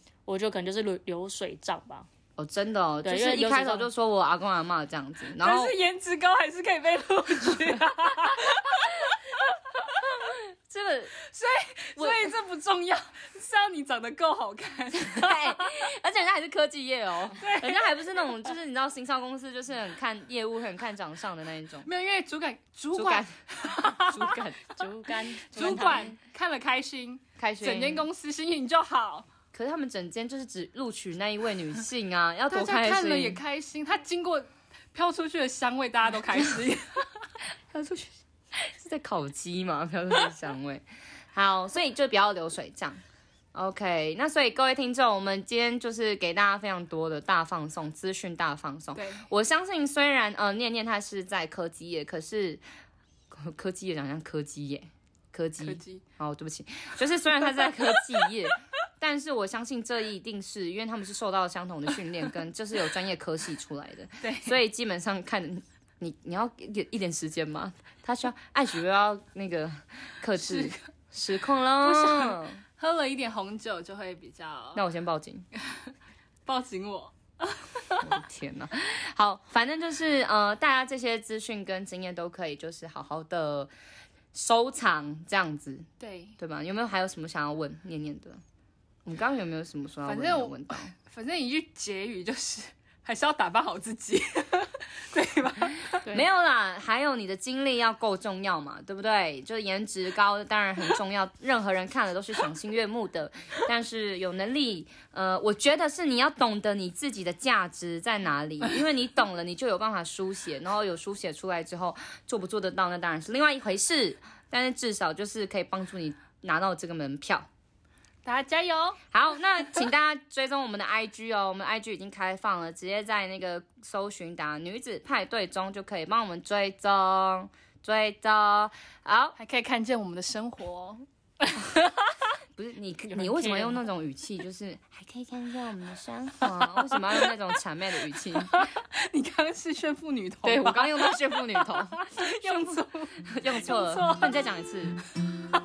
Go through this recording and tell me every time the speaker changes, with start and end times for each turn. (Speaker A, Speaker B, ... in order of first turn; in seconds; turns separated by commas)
Speaker A: 0.2-2.1, Speaker B: 2.4-5.8, Speaker A: 3.0-3.9, Speaker C: 5.3-9.2, Speaker B: 10.2-11.2, Speaker C: 11.2-15.7, Speaker B: 12.0-12.3, Speaker B: 14.9-21.9, Speaker C: 17.4-18.2, Speaker C: 21.8-24.4, Speaker B: 22.9-23.3, Speaker B: 23.9-24.9, Speaker A: 24.8-26.1, Speaker C: 25.5-29.3, Speaker B: 25.5-26.1, Speaker B: 27.4-28.1, Speaker B: 29.5-33.4, Speaker C: 32.5-37.3, Speaker B: 37.7-43.0, Speaker B: 43.5-52.6, Speaker C: 49.0-49.3, Speaker B: 53.3-72.6, Speaker C: 55.6-56.0, Speaker C: 64.2-64.6, Speaker C: 70.4-70.8, Speaker C: 71.8-74.8, Speaker B: 74.7-75.4, Speaker C: 76.5-78.2, Speaker B: 78.0-83.7, Speaker B: 84.3-85.9, Speaker C: 86.0-86.4, Speaker B: 86.4-88.4, Speaker B: 89.0-90.9, Speaker C: 90.0-96.2, Speaker B: 96.0-117.5, Speaker C: 118.2-119.0, Speaker B: 119.1-129.4, Speaker C: 129.4-132.1, Speaker B: 132.6-138.6, Speaker A: 133.1-133.8, Speaker C: 138.5-144.4, Speaker B: 140.4-145.0